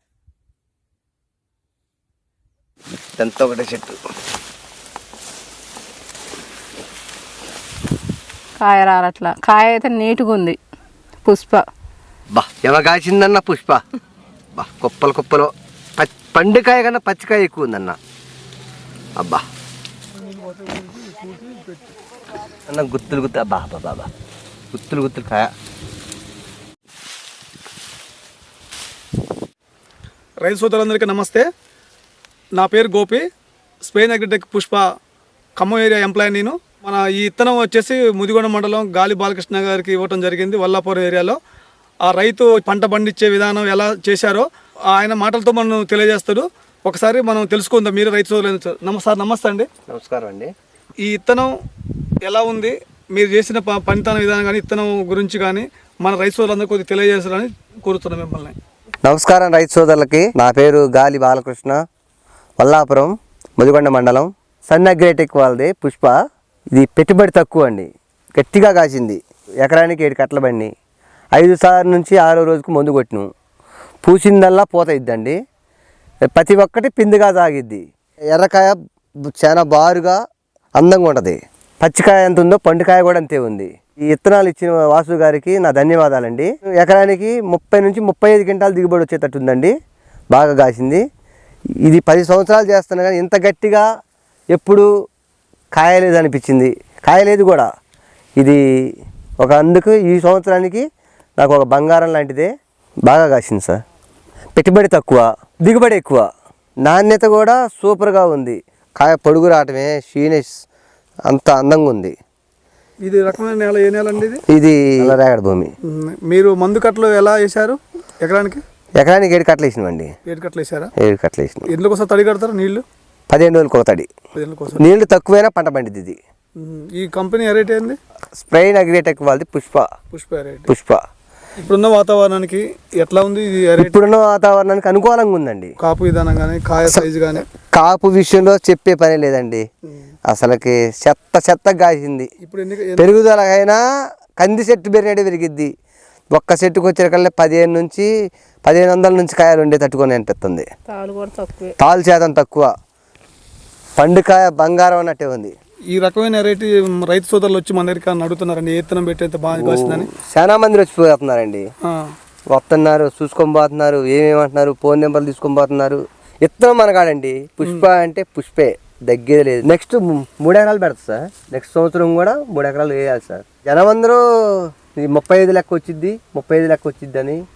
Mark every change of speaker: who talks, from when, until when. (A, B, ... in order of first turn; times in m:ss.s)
0:03.1-0:04.0 A
0:08.6-0:10.6 B
0:11.2-0:11.6 B
0:12.3-0:13.8 A
0:14.5-0:18.0 A
0:19.2-0:19.4 A
0:20.2-0:21.8 C
0:22.6-0:24.1 A
0:24.7-0:25.5 A
0:30.4-0:31.5 C
0:32.5-0:33.2 C
0:33.8-0:34.8 C
0:35.6-0:41.4 C
0:42.0-0:49.7 C
0:49.9-0:50.5 A
0:51.0-0:51.5 C
0:52.2-0:58.5 C
0:59.0-1:01.8 A
1:02.6-1:06.2 A
1:06.7-1:10.7 A
1:11.3-1:13.3 A
1:14.0-1:15.4 A
1:16.2-1:20.2 A
1:20.8-1:29.7 A
1:30.3-1:31.0 A
1:31.8-1:33.8 A
1:34.5-1:34.9 A
1:35.7-1:37.7 A
1:38.4-1:40.8 A
1:41.4-1:42.5 A
1:43.0-1:43.8 A
1:44.5-1:46.3 A
1:46.8-1:50.6 A
1:51.2-1:52.1 A
1:53.0-1:54.4 C
1:54.5-1:55.7 A
1:55.8-1:58.6 C
1:59.0-2:00.1 A
2:00.2-2:00.9 C
2:01.0-2:01.7 A
2:01.7-2:02.8 C
2:03.3-2:04.1 A
2:04.3-2:04.9 C
2:04.7-2:06.2 A
2:06.6-2:08.0 C
2:08.4-2:09.9 A
2:10.1-2:10.7 C
2:10.7-2:11.0 A
2:11.6-2:13.9 C
2:13.8-2:15.8 A
2:15.8-2:17.4 C
2:16.8-2:19.6 A
2:20.3-2:22.3 A
2:22.4-2:23.2 C
2:23.0-2:23.8 A
2:24.4-2:25.7 A
2:26.3-2:28.1 A
2:28.6-2:30.7 A
2:30.9-2:31.7 B
2:31.8-2:32.7 A
2:34.0-2:35.5 A
2:35.9-2:40.1 C
2:39.5-2:41.6 A
2:41.8-2:42.1 C
2:42.5-2:57.4 A